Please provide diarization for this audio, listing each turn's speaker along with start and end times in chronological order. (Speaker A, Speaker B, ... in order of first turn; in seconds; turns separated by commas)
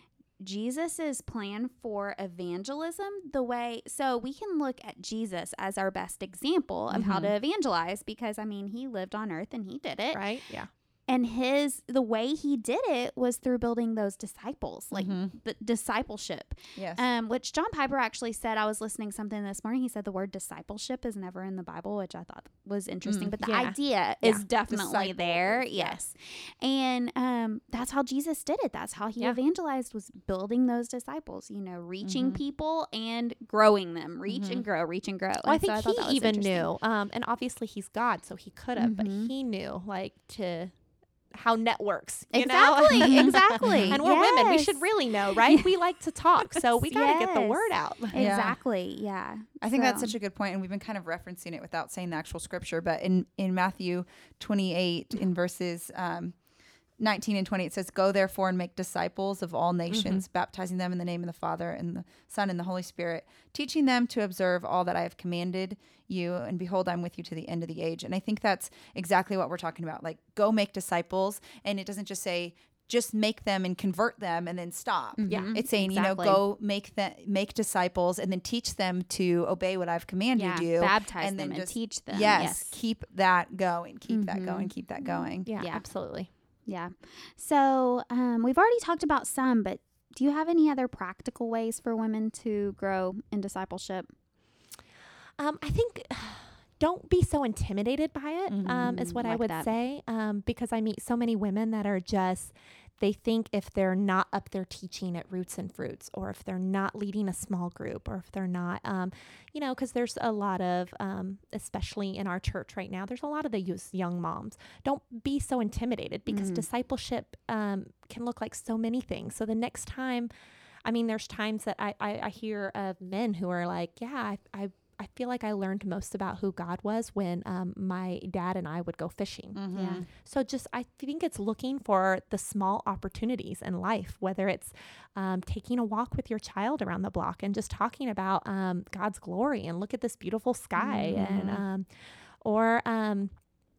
Speaker A: 0.4-10.3, Speaker B: 6.9-7.3, Speaker C: 10.1-10.7, Speaker A: 11.1-36.7, Speaker B: 14.9-15.3, Speaker B: 16.8-17.0, Speaker B: 23.1-23.3, Speaker C: 23.4-24.4, Speaker B: 24.4-26.0, Speaker B: 32.0-32.4, Speaker B: 34.3-34.6, Speaker C: 35.4-40.7, Speaker A: 38.8-39.3, Speaker C: 41.3-48.3, Speaker A: 42.3-45.8, Speaker B: 43.0-44.0, Speaker A: 46.5-50.1, Speaker B: 48.1-48.6, Speaker B: 49.6-56.4, Speaker B: 57.0-85.5, Speaker C: 59.9-60.2, Speaker A: 75.2-76.4, Speaker C: 75.3-76.4, Speaker A: 80.3-82.8, Speaker A: 84.1-86.1, Speaker C: 85.5-86.3, Speaker A: 86.7-94.1, Speaker C: 95.4-120.3, Speaker B: 98.5-99.2, Speaker A: 99.2-99.7, Speaker A: 116.3-116.7, Speaker C: 120.8-143.3, Speaker B: 129.6-130.1, Speaker A: 129.7-130.0, Speaker A: 140.8-141.6, Speaker B: 141.1-141.6